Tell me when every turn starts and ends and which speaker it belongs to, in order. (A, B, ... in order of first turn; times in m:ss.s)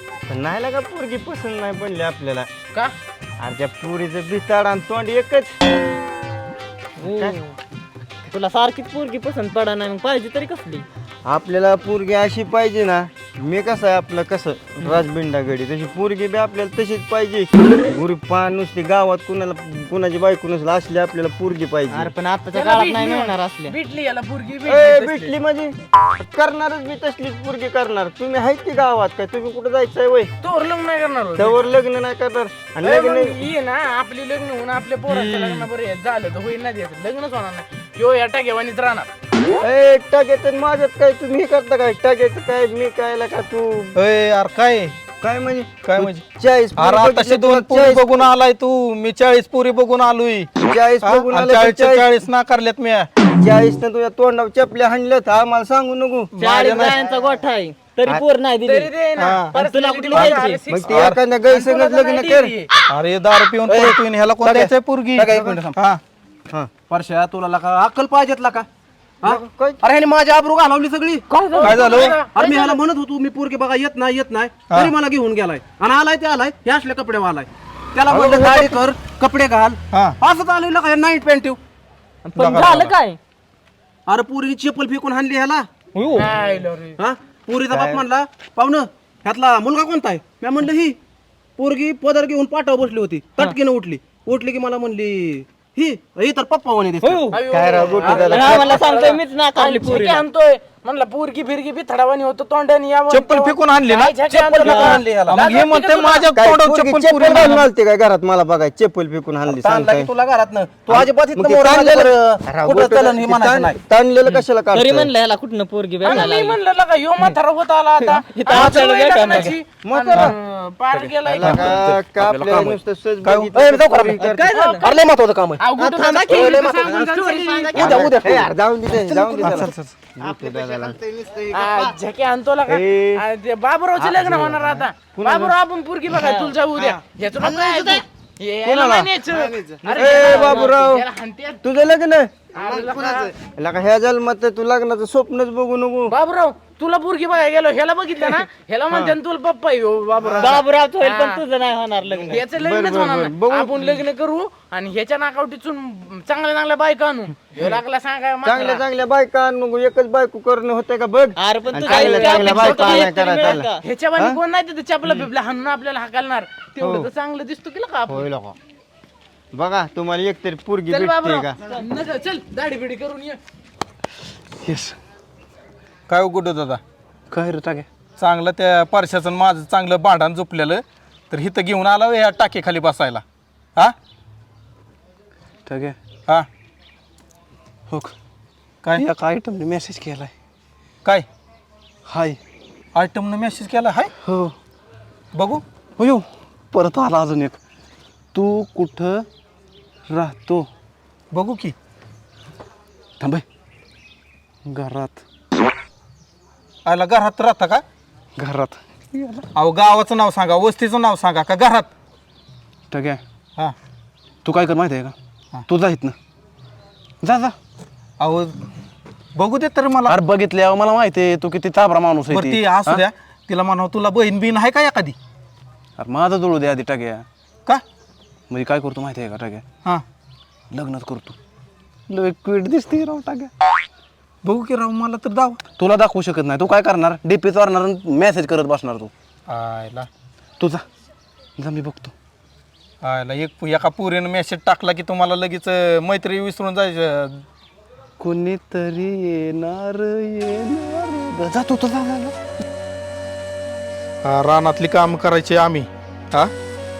0:00.3-0:02.5 A
0:03.4-0:05.5 A
0:07.0-0:07.4 A
0:07.0-0:07.6 B
0:08.3-0:10.8 B
0:11.2-0:22.1 A
0:21.9-0:23.8 B
0:22.5-0:25.3 C
0:24.6-0:30.3 A
0:30.4-0:31.7 C
0:31.4-0:33.4 A
0:32.8-0:39.1 C
0:35.1-0:35.7 A
0:39.6-0:43.9 A
0:43.9-0:44.9 D
0:45.2-0:48.3 A
0:45.8-0:46.2 D
0:46.8-0:50.5 D
0:50.6-0:52.1 A
0:51.0-0:53.1 D
0:53.4-0:56.3 A
0:56.4-0:58.9 B
0:56.4-0:57.0 D
0:58.6-1:02.7 C
0:59.2-0:59.5 D
0:59.5-1:00.6 B
1:00.1-1:01.2 D
1:00.7-1:02.5 A
1:02.9-1:06.0 D
1:03.7-1:05.8 E
1:06.9-1:08.7 E
1:09.2-1:21.6 E
1:09.2-1:09.8 A
1:11.5-1:12.8 C
1:11.6-1:12.0 B
1:11.6-1:12.2 D
1:18.1-1:18.4 D
1:19.9-1:20.2 D
1:22.2-1:23.2 B
1:22.3-1:23.0 D
1:24.1-1:25.7 E
1:26.0-1:26.2 B
1:26.2-1:27.0 C
1:27.0-1:31.0 E
1:31.6-1:37.4 E
1:37.0-1:40.2 B
1:37.3-1:46.3 C
1:37.5-1:39.0 A
1:43.1-1:47.7 D
1:44.3-1:45.4 E
1:46.3-1:50.1 A
1:49.4-1:53.8 E
1:50.9-1:55.1 A
1:54.2-1:56.6 B
1:56.0-2:01.5 C
1:58.1-1:59.6 B
1:59.4-2:00.3 A
2:01.3-2:04.7 A
2:01.4-2:05.6 E
2:04.2-2:04.9 B
2:04.4-2:04.8 C
2:05.6-2:07.9 C
2:05.8-2:08.1 B
2:06.3-2:07.0 E
2:06.3-2:07.0 A
2:07.7-2:11.0 A
2:07.7-2:09.7 E
2:09.4-2:10.0 D
2:10.2-2:12.0 B
2:11.5-2:21.6 C
2:11.6-2:11.9 A
2:12.7-2:13.2 A
2:14.0-2:15.6 A
2:16.2-2:16.9 A
2:17.4-2:17.8 A
2:17.6-2:18.0 B
2:18.6-2:21.0 A
2:19.9-2:20.7 B
2:21.6-2:26.1 A
2:22.5-2:23.3 C
2:26.1-2:31.4 C
2:28.9-2:29.2 A
2:30.2-2:30.6 A
2:30.4-2:32.4 B
2:32.2-2:34.0 A
2:32.3-2:38.8 C
2:38.4-2:44.4 A
2:41.4-2:43.8 B
2:41.8-2:48.3 C
2:46.8-2:47.1 A
2:48.1-2:48.6 A
2:49.5-2:51.6 A
2:50.9-2:53.4 C
2:54.6-2:55.0 E
2:56.1-2:56.8 D
2:57.3-2:57.9 E
2:58.2-3:03.2 D
3:05.6-3:06.0 E
3:08.9-3:10.3 E
3:12.0-3:12.4 E
3:12.9-3:14.1 D
3:14.2-3:14.5 E
3:15.3-3:15.6 D
3:16.0-3:17.6 E
3:18.3-3:19.2 E
3:20.1-3:20.7 E
3:21.3-3:21.7 D
3:24.6-3:25.2 E
3:26.8-3:27.8 D
3:28.4-3:28.8 E
3:29.5-3:31.9 D
3:32.9-3:33.2 E
3:34.4-3:35.1 E
3:35.7-3:36.2 E
3:37.2-3:37.5 E
3:38.2-3:38.5 D
3:39.4-3:40.2 D
3:40.1-3:43.0 E
3:42.3-3:45.2 D
3:46.0-3:47.2 E
3:48.5-3:49.6 E
3:50.7-3:51.4 E
3:52.1-3:53.5 E
3:54.4-3:55.6 D
3:55.8-3:59.1 E
3:59.5-4:00.1 D
4:00.6-4:00.8 E
4:01.6-4:02.1 E
4:03.0-4:07.4 D
4:08.2-4:12.4 E
4:14.2-4:16.5 D